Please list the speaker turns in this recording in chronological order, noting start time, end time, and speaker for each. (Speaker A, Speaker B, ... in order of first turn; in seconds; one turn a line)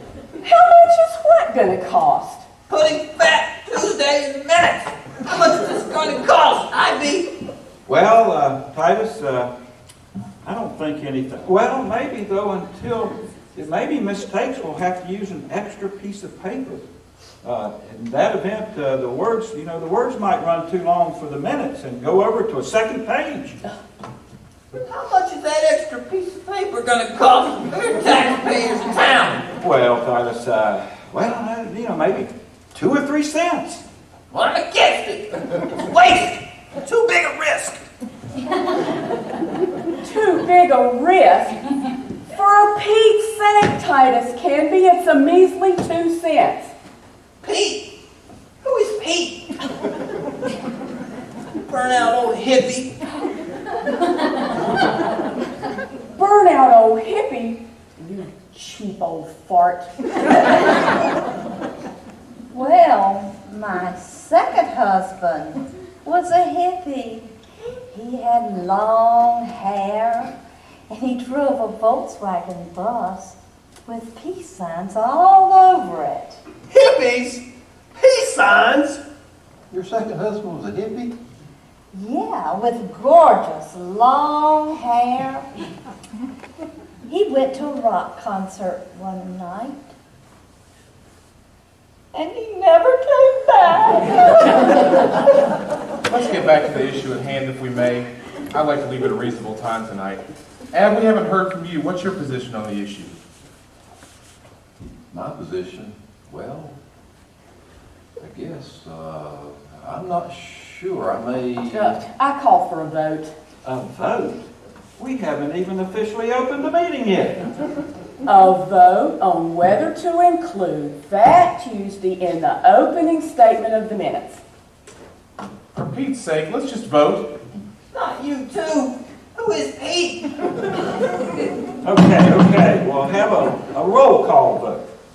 Speaker A: 0.4-2.5
Speaker B: 2.7-7.3
Speaker C: 7.9-9.5
Speaker C: 10.4-16.8
Speaker C: 17.4-23.6
Speaker B: 24.8-29.5
Speaker C: 29.6-33.8
Speaker B: 34.3-37.8
Speaker A: 40.0-41.6
Speaker A: 42.3-46.7
Speaker B: 47.4-47.9
Speaker B: 48.6-49.5
Speaker B: 51.7-52.9
Speaker A: 56.1-60.7
Speaker D: 62.5-67.3
Speaker D: 67.9-70.3
Speaker D: 70.9-76.4
Speaker B: 76.7-77.1
Speaker B: 78.0-78.6
Speaker E: 79.7-81.1
Speaker D: 81.9-85.5
Speaker D: 87.1-89.9
Speaker D: 92.1-95.1
Speaker F: 96.1-103.2
Speaker E: 105.1-106.8
Speaker E: 108.2-112.0
Speaker A: 111.7-113.3
Speaker C: 113.6-114.5
Speaker C: 115.0-117.5
Speaker A: 118.2-124.4
Speaker F: 125.8-127.3
Speaker B: 127.9-131.0
Speaker C: 131.8-134.8